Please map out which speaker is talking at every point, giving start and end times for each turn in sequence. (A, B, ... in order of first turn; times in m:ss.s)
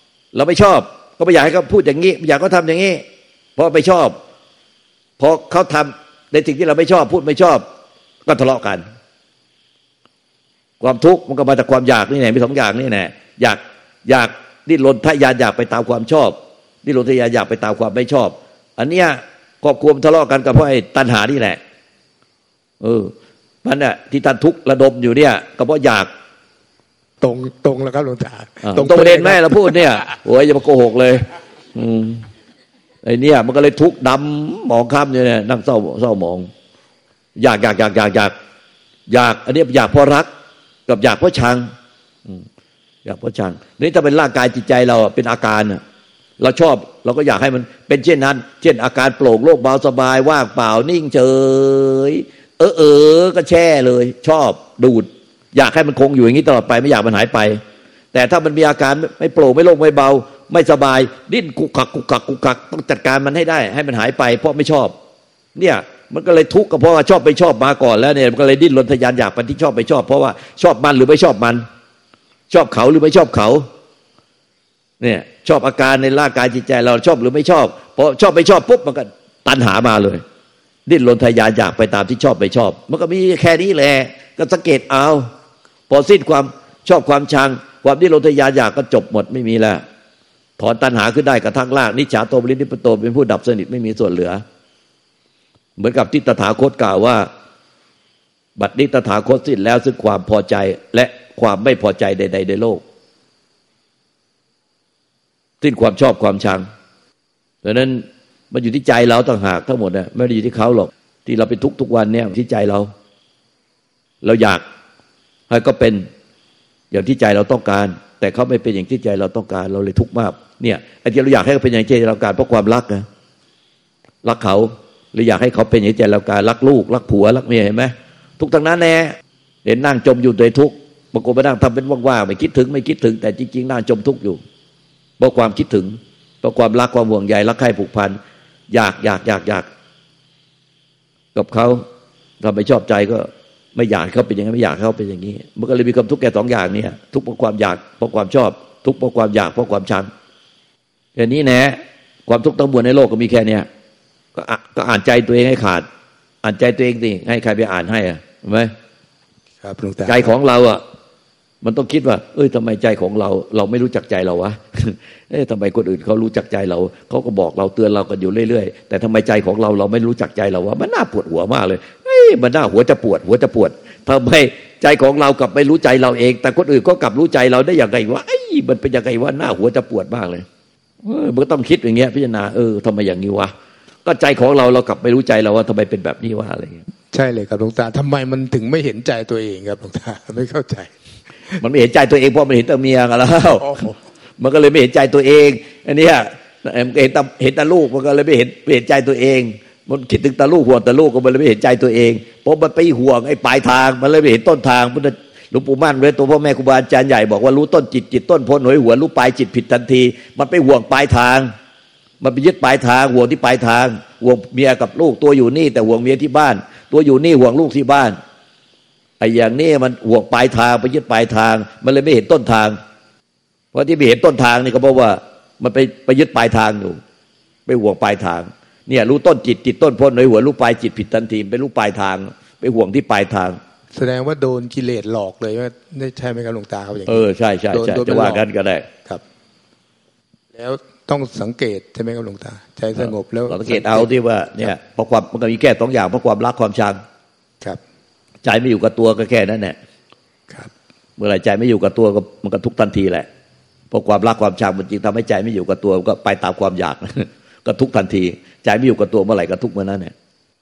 0:00.3-0:03.0 A
0:03.6-0:04.2 A
0:05.2-0:07.6 A
0:08.2-0:08.8 A
0:10.8-0:21.6 A
0:22.8-0:23.1 A
0:23.6-0:26.1 A
0:27.2-0:30.0 B
0:28.6-0:32.3 A
0:33.0-0:36.5 A
0:37.4-0:38.3 A
0:39.1-0:40.3 A
0:40.9-0:41.7 A
0:43.0-0:45.8 A
0:46.4-0:57.6 A
0:58.1-1:04.9 A
1:05.6-1:11.6 A
1:12.5-1:13.6 A
1:15.0-1:20.2 A
1:20.9-1:25.3 A
1:25.9-1:29.8 A
1:30.6-1:34.4 A
1:35.8-1:37.3 A
1:38.6-1:42.8 A
1:45.6-1:46.6 A
1:47.6-1:52.9 A
1:54.2-1:54.6 A
1:55.5-1:56.1 A
1:56.9-2:03.1 A
2:04.2-2:14.4 A
2:15.2-2:18.2 A
2:18.7-2:19.7 A
2:21.3-2:21.8 A
2:22.4-2:30.1 A
2:31.2-2:33.7 A
2:34.4-2:35.8 A
2:36.4-2:38.7 A
2:39.6-2:40.3 B
2:40.0-2:40.8 A
2:41.6-3:00.4 A
3:01.0-3:03.5 A
3:04.0-3:06.8 A
3:07.1-3:10.9 B
3:11.6-3:31.5 A
3:13.6-3:13.9 B
3:32.2-3:38.2 A
3:39.2-3:42.8 A
3:43.7-3:47.0 A
3:47.7-3:53.6 A
3:53.9-3:58.4 B
3:57.1-3:58.8 A
4:00.5-4:04.7 B
4:03.0-4:07.0 A
4:08.4-4:09.8 A
4:11.2-4:13.3 A
4:13.9-4:20.1 A